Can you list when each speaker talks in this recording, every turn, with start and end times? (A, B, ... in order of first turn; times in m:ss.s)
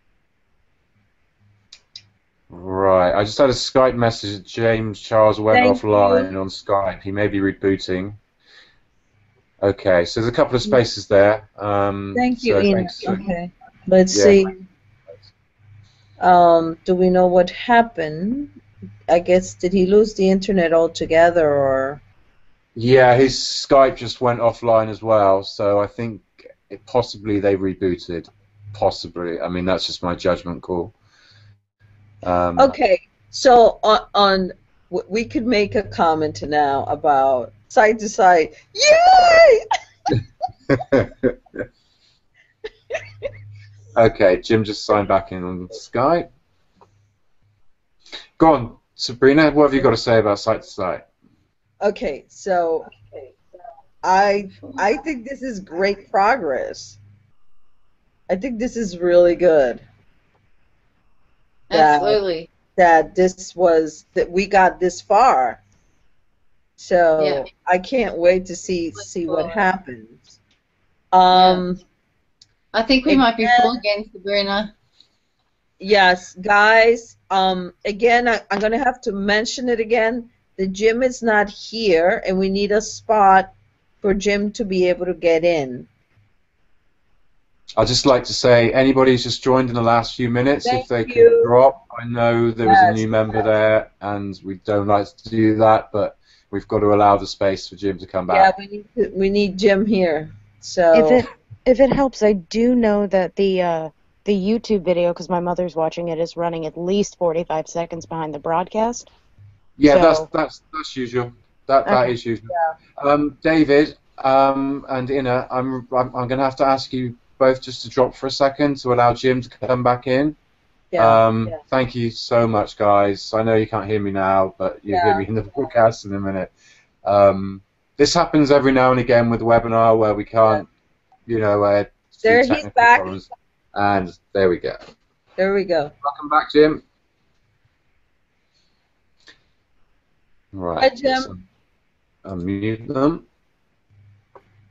0:02.5-0:08.2 A
0:05.5-0:06.3 B
0:09.6-0:13.2 A
0:12.1-0:14.5 B
0:14.1-0:14.4 A
0:16.2-0:18.5 B
0:19.1-0:22.0 B
0:22.8-0:30.9 A
0:32.2-0:32.8 A
0:32.6-0:39.6 B
0:43.9-0:46.3 A
0:48.4-0:51.0 A
0:51.8-0:53.3 B
0:54.0-0:57.0 B
0:58.3-0:59.8 B
1:01.7-1:02.5 C
1:01.7-1:02.2 B
1:02.8-1:05.6 B
1:06.8-1:10.3 B
1:07.2-1:07.4 C
1:08.9-1:09.6 C
1:11.1-1:11.8 B
1:11.3-1:11.6 C
1:12.7-1:14.7 C
1:13.0-1:13.8 B
1:15.8-1:23.5 B
1:24.0-1:25.9 B
1:27.8-1:38.5 A
1:30.6-1:31.5 B
1:32.6-1:33.5 B
1:38.3-1:41.2 B
1:40.9-1:49.1 D
1:49.8-2:00.4 A
1:49.8-1:50.3 D
2:00.9-2:01.6 B
2:01.0-2:06.5 A
2:04.9-2:05.2 B
2:07.0-2:10.7 A
2:11.3-2:14.8 A
2:12.2-2:13.2 B
2:15.4-2:15.9 B
2:16.0-2:16.8 A
2:20.5-2:21.4 A
2:20.8-2:21.3 B
2:22.2-2:23.2 A